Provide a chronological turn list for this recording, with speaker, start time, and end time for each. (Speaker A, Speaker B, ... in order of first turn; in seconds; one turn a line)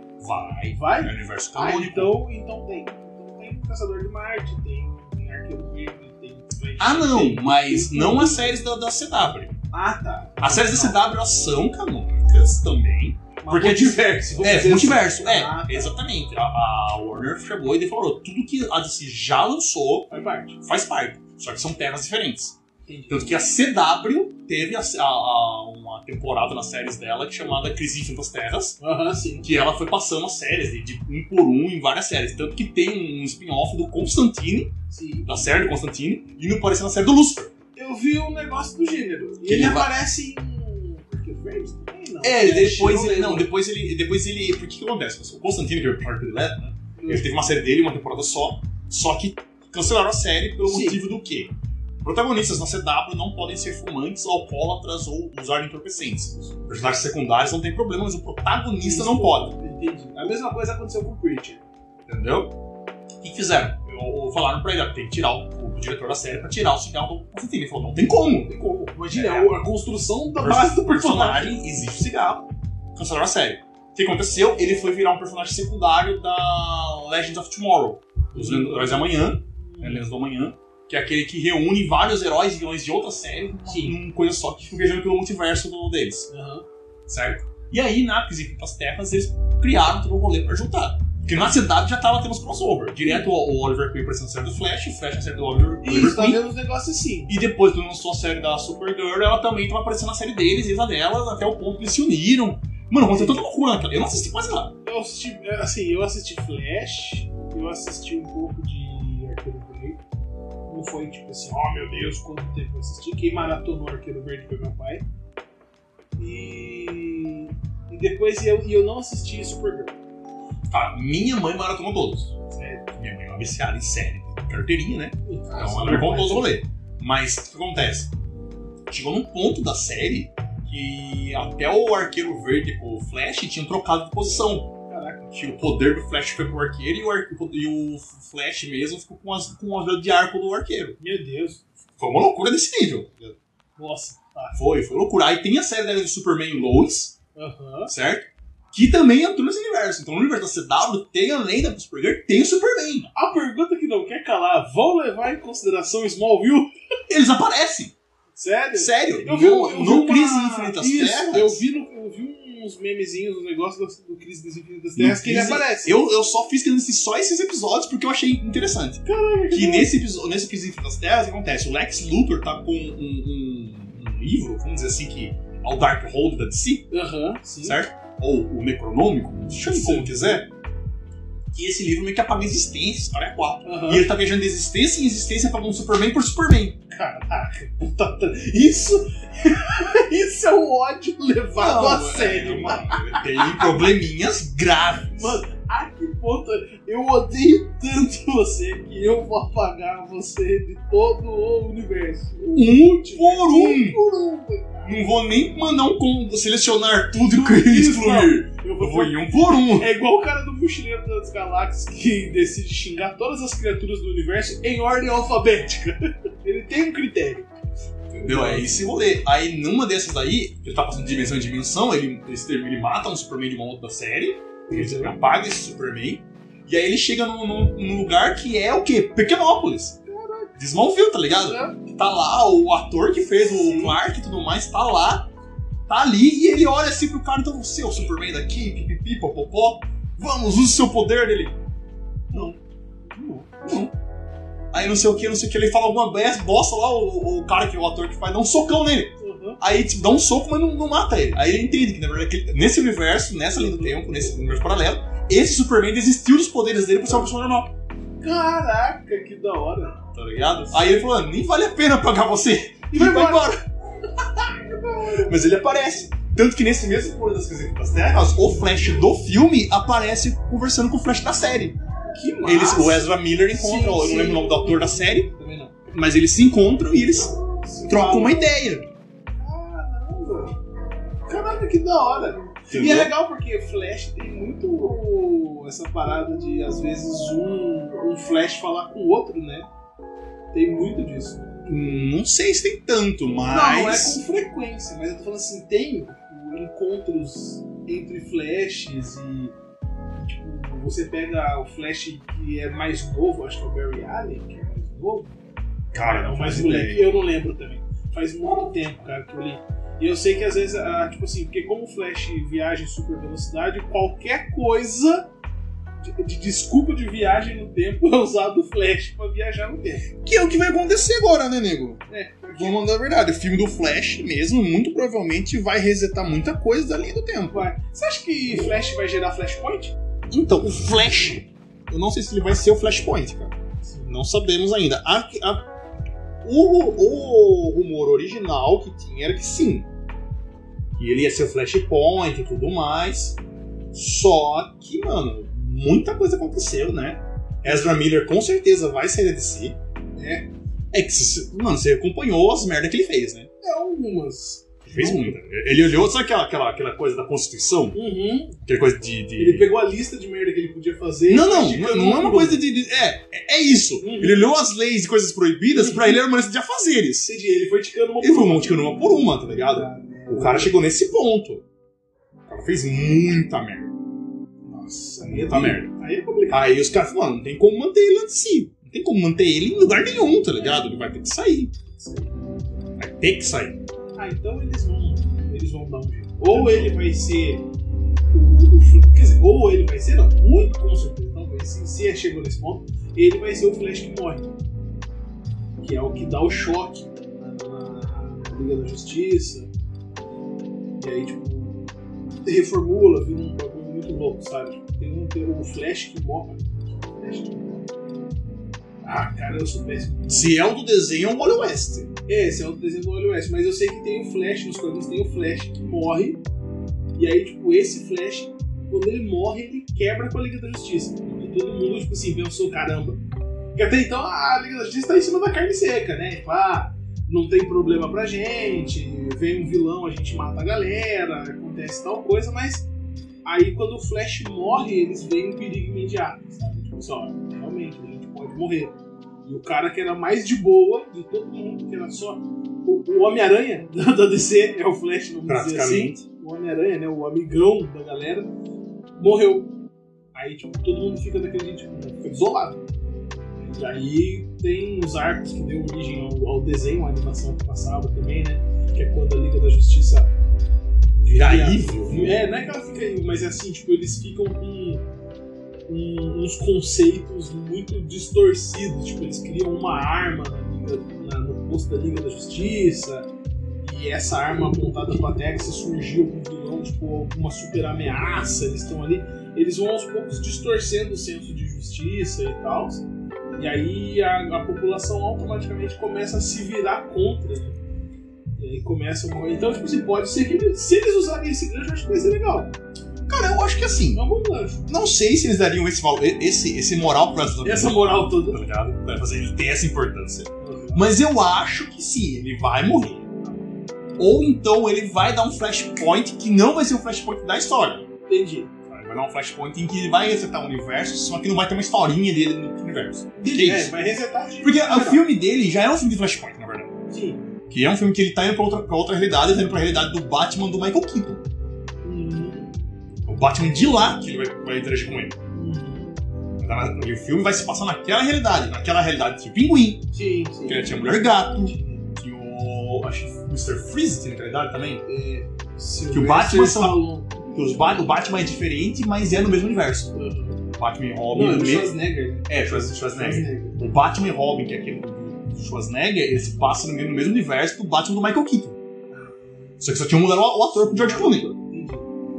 Speaker A: 0.2-2.2
Speaker B: 0.7-8.5
Speaker A: 6.8-9.6
Speaker B: 9.7-11.0
Speaker A: 10.4-20.1
Speaker B: 13.4-15.9
Speaker B: 20.1-20.6
Speaker A: 20.6-22.6
Speaker B: 22.9-23.4
Speaker A: 23.1-28.8
Speaker B: 28.8-29.5
Speaker A: 29.4-37.6
Speaker B: 34.9-35.3
Speaker B: 37.8-43.5
Speaker A: 39.4-39.9
Speaker A: 42.2-59.6
Speaker B: 47.0-47.4
Speaker B: 50.6-51.0
Speaker B: 56.1-56.7
Speaker B: 58.8-61.6
Speaker A: 62.1-62.6
Speaker A: 63.2-69.6
Speaker B: 68.9-71.6
Speaker A: 70.3-86.3
Speaker B: 78.3-80.1
Speaker B: 83.7-84.0
Speaker B: 86.3-86.7
Speaker A: 87.1-96.5
Speaker B: 95.8-97.3
Speaker A: 97.3-104.7
Speaker B: 103.1-103.4
Speaker B: 104.8-110.0
Speaker B: 110.7-115.0
Speaker B: 116.2-120.0
Speaker A: 120.7-122.3
Speaker B: 122.5-122.8
Speaker A: 123.0-128.1
Speaker B: 125.2-126.5
Speaker A: 128.9-134.7
Speaker B: 134.9-135.3
Speaker A: 135.3-141.0
Speaker B: 141.0-141.7
Speaker A: 142.0-143.4
Speaker B: 143.8-144.6
Speaker A: 144.5-147.2
Speaker B: 147.4-147.9
Speaker A: 147.9-153.1
Speaker B: 153.2-156.7
Speaker A: 157.1-157.9
Speaker B: 158.4-166.0
Speaker A: 158.7-161.6
Speaker A: 165.0-176.9
Speaker B: 169.1-169.9
Speaker B: 176.9-177.8
Speaker A: 177.6-180.5
Speaker B: 179.6-180.4
Speaker A: 181.5-186.8
Speaker B: 183.6-184.1
Speaker B: 186.9-193.8
Speaker A: 191.6-195.4
Speaker B: 195.1-205.1
Speaker A: 202.5-204.0
Speaker A: 204.8-209.9
Speaker B: 207.3-217.5
Speaker A: 218.1-230.0
Speaker B: 218.2-218.7
Speaker B: 224.7-225.2
Speaker B: 230.1-230.6
Speaker A: 230.6-235.3
Speaker B: 231.3-231.8
Speaker B: 233.4-234.0
Speaker A: 235.9-241.6
Speaker A: 242.3-242.6
Speaker B: 242.3-243.5
Speaker A: 243.6-243.9
Speaker A: 244.7-257.7
Speaker B: 249.2-249.6
Speaker B: 253.5-254.4
Speaker B: 258.2-260.0
Speaker A: 260.1-263.6
Speaker B: 260.7-260.9
Speaker B: 262.9-263.6
Speaker B: 264.2-265.3
Speaker A: 265.2-271.8
Speaker B: 272.1-275.8
Speaker A: 272.4-275.3
Speaker A: 275.9-278.9
Speaker B: 277.6-278.5
Speaker B: 279.4-280.6
Speaker B: 281.3-289.7
Speaker A: 282.7-283.1
Speaker B: 290.5-292.1
Speaker A: 291.7-294.2
Speaker B: 293.5-299.5
Speaker B: 300.1-305.4
Speaker A: 305.9-307.1
Speaker B: 305.9-315.3
Speaker B: 316.0-320.1
Speaker A: 320.2-322.0
Speaker B: 322.1-322.8
Speaker A: 322.6-327.7
Speaker B: 327.5-329.9
Speaker A: 330.3-335.7
Speaker B: 333.8-334.1
Speaker A: 336.4-339.9
Speaker A: 341.0-343.4
Speaker A: 343.9-349.8
Speaker B: 347.6-347.9
Speaker B: 350.2-350.5
Speaker A: 350.9-353.5
Speaker B: 353.6-355.4
Speaker A: 354.9-358.0
Speaker B: 357.9-358.6
Speaker A: 358.6-359.7
Speaker B: 359.4-362.6
Speaker A: 361.3-367.4
Speaker B: 364.0-364.5
Speaker B: 365.7-366.2
Speaker B: 367.2-368.9
Speaker A: 368.2-371.6
Speaker B: 369.6-370.8
Speaker A: 372.5-373.9
Speaker B: 374.7-376.7
Speaker A: 375.2-375.9
Speaker A: 376.5-381.7
Speaker B: 381.9-382.5
Speaker A: 383.0-383.8
Speaker B: 384.2-387.6
Speaker A: 386.4-387.0
Speaker B: 388.3-394.5
Speaker B: 395.8-399.7
Speaker B: 401.0-401.9
Speaker B: 402.4-407.9
Speaker B: 409.0-410.6
Speaker A: 410.3-412.1
Speaker B: 412.3-416.4
Speaker B: 417.2-423.2
Speaker B: 423.8-432.9
Speaker B: 433.4-438.9
Speaker B: 439.4-448.5
Speaker A: 445.5-446.2
Speaker B: 449.2-449.7
Speaker B: 450.3-452.8
Speaker B: 453.6-460.3
Speaker A: 461.2-462.4
Speaker B: 461.3-465.1
Speaker B: 465.9-473.3
Speaker B: 473.8-483.1
Speaker B: 483.6-487.8
Speaker B: 488.6-492.7
Speaker A: 493.3-494.2
Speaker B: 494.1-494.9
Speaker A: 494.9-503.3
Speaker B: 497.6-498.6
Speaker B: 500.6-501.1
Speaker A: 504.2-508.1
Speaker B: 508.3-508.7
Speaker A: 508.9-513.9
Speaker B: 513.4-515.2
Speaker A: 514.6-516.9
Speaker B: 517.1-517.4
Speaker A: 517.7-521.4
Speaker B: 522.0-522.8
Speaker A: 523.3-525.4
Speaker B: 525.5-526.1
Speaker A: 526.6-530.1
Speaker B: 530.1-532.1
Speaker A: 530.7-535.0
Speaker B: 535.1-537.5
Speaker A: 536.1-537.0
Speaker A: 537.5-540.1
Speaker B: 540.1-540.6
Speaker A: 540.8-548.8
Speaker B: 541.3-543.8
Speaker A: 549.8-551.5
Speaker B: 550.8-552.1